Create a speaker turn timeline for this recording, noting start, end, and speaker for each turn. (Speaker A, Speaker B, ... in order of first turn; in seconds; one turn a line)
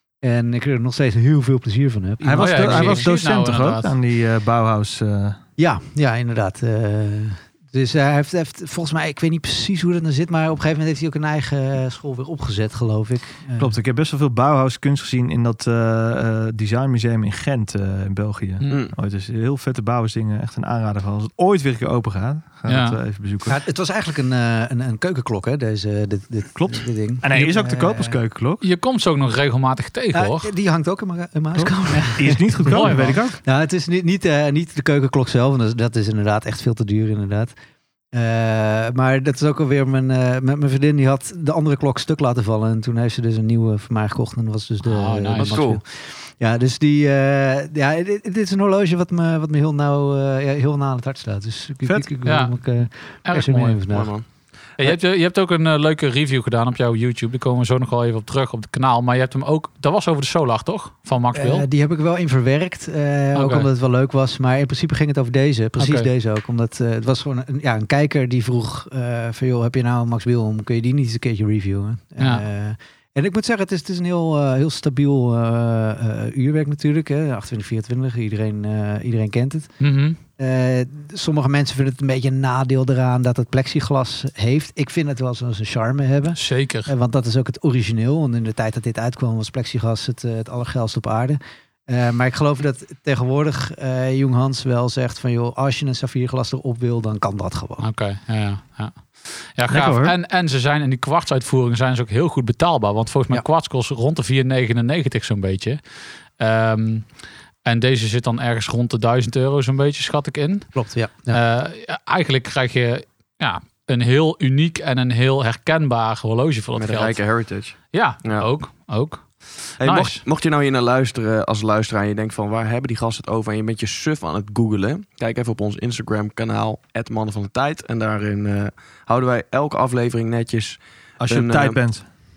Speaker A: 0.2-3.0
Speaker B: 2.2-5.4
Speaker C: 2.3-3.9
Speaker A: 5.6-13.7
Speaker B: 13.6-23.6
Speaker D: 18.6-18.9
Speaker C: 22.7-23.0
Speaker A: 23.5-28.2
Speaker B: 26.5-28.6
Speaker C: 28.6-30.5
Speaker A: 30.1-37.5
Speaker B: 31.5-33.4
Speaker C: 31.9-33.2
Speaker A: 38.1-54.1
Speaker C: 44.8-45.6
Speaker D: 45.4-45.8
Speaker C: 52.2-52.5
Speaker C: 53.2-53.8
Speaker D: 53.9-54.2
Speaker C: 54.8-61.6
Speaker A: 61.3-79.7
Speaker C: 63.3-63.7
Speaker C: 65.8-66.1
Speaker C: 72.2-72.4
Speaker C: 79.8-80.2
Speaker A: 80.4-97.8
Speaker C: 86.3-86.9
Speaker C: 97.8-105.8
Speaker B: 99.7-100.1
Speaker C: 106.4-107.1
Speaker C: 107.6-110.7
Speaker A: 110.8-111.4
Speaker C: 111.3-117.2
Speaker D: 116.8-118.5
Speaker C: 117.9-120.2
Speaker D: 119.8-131.8
Speaker B: 131.2-132.0